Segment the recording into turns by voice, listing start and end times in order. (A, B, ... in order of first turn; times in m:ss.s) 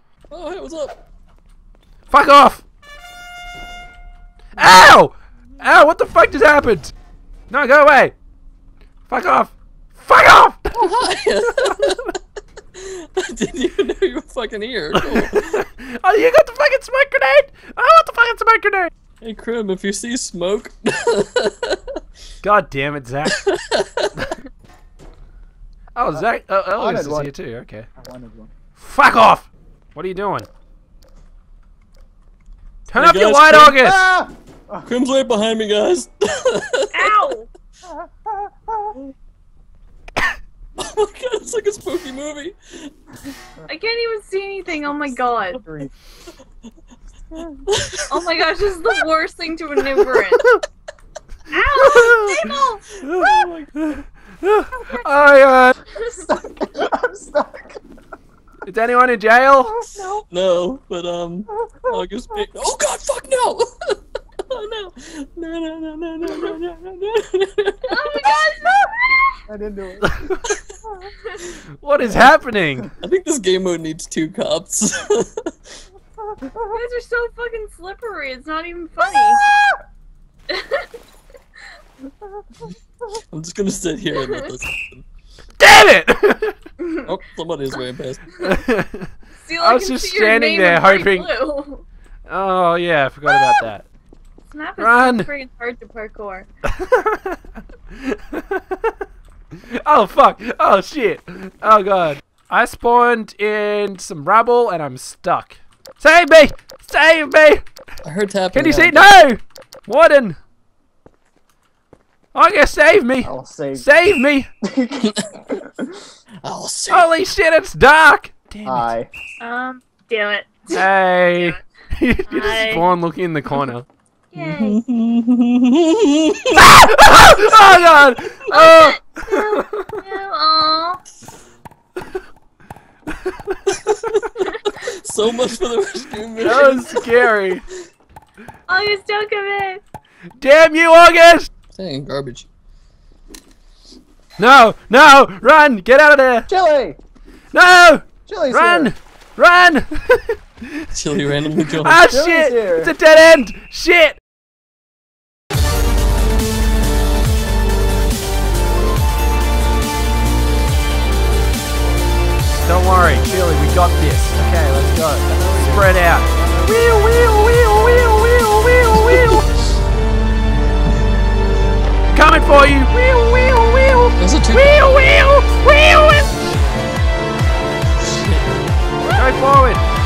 0:00.3-0:01.0 A
0:02.1-0:02.6 B
0:04.6-0:06.9 B
0:07.5-0:08.1 B
0:09.1-0:10.7 B
0:10.8-0:12.1 A
0:12.8-0:15.6 A
0:15.0-0:18.9 B
0:19.2-0:21.8 A
0:22.4-0:23.4 B
0:23.3-0:24.3 A
0:26.0-0:27.9 B
0:26.8-0:27.3 C
0:28.0-0:28.5 C
0:28.8-0:30.5 B
0:32.9-0:34.0 B
0:32.9-0:33.9 A
0:33.8-0:34.9 C
0:34.8-0:37.2 A
0:36.9-0:37.5 D
0:37.9-0:39.0 C
0:40.8-0:42.9 A
0:43.7-0:45.6 D
0:44.9-0:45.9 C
0:47.7-0:49.0 A
0:48.1-0:50.4 D
0:49.8-0:50.3 A
0:51.5-0:52.8 D
0:51.8-0:52.4 B
0:53.0-0:55.7 B
0:53.0-0:54.0 A
0:56.1-0:57.8 C
0:58.6-0:59.7 B
0:59.7-1:00.2 C
1:00.3-1:08.4 A
1:07.9-1:09.4 D
1:09.5-1:10.3 C
1:11.8-1:12.9 B
1:13.0-1:15.5 A
1:16.7-1:19.4 D
1:20.5-1:20.9 D
1:23.3-1:25.0 A
1:25.6-1:26.6 B
1:26.8-1:27.1 D
1:27.1-1:28.2 A
1:28.4-1:29.1 B
1:29.4-1:31.8 D
1:29.6-1:31.3 B
1:32.3-1:33.9 B
1:34.5-1:36.5 D
1:34.8-1:35.3 B
1:36.7-1:37.3 B
1:37.9-1:38.6 B
1:39.6-1:47.6 B
1:48.0-1:49.1 A
1:48.5-1:50.4 B
1:52.3-1:54.5 B
1:53.2-1:53.9 C
1:54.6-1:55.9 C
1:55.0-1:55.4 A
1:56.4-1:57.1 A
1:56.9-1:58.9 B
1:58.6-1:59.1 C
1:59.4-2:00.8 D
2:00.7-2:03.9 B
2:02.3-2:02.8 D
2:04.3-2:04.8 D
2:04.3-2:06.6 A
2:06.6-2:09.7 B
2:08.5-2:11.0 D
2:13.8-2:17.3 A
2:16.4-2:17.6 B
2:18.7-2:19.8 D
2:20.4-2:21.5 B
2:21.7-2:22.5 A
2:24.4-2:26.5 B
2:26.5-2:27.0 C
2:27.5-2:30.9 B
2:28.3-2:28.9 C
2:30.9-2:32.1 A
2:31.8-2:34.2 B
2:32.1-2:32.9 C
2:42.5-2:49.5 B
2:45.3-2:46.7 C
2:49.0-2:49.4 A
2:52.1-2:56.6 B
2:54.2-2:55.0 A
2:58.0-2:58.5 A
2:59.1-2:59.8 B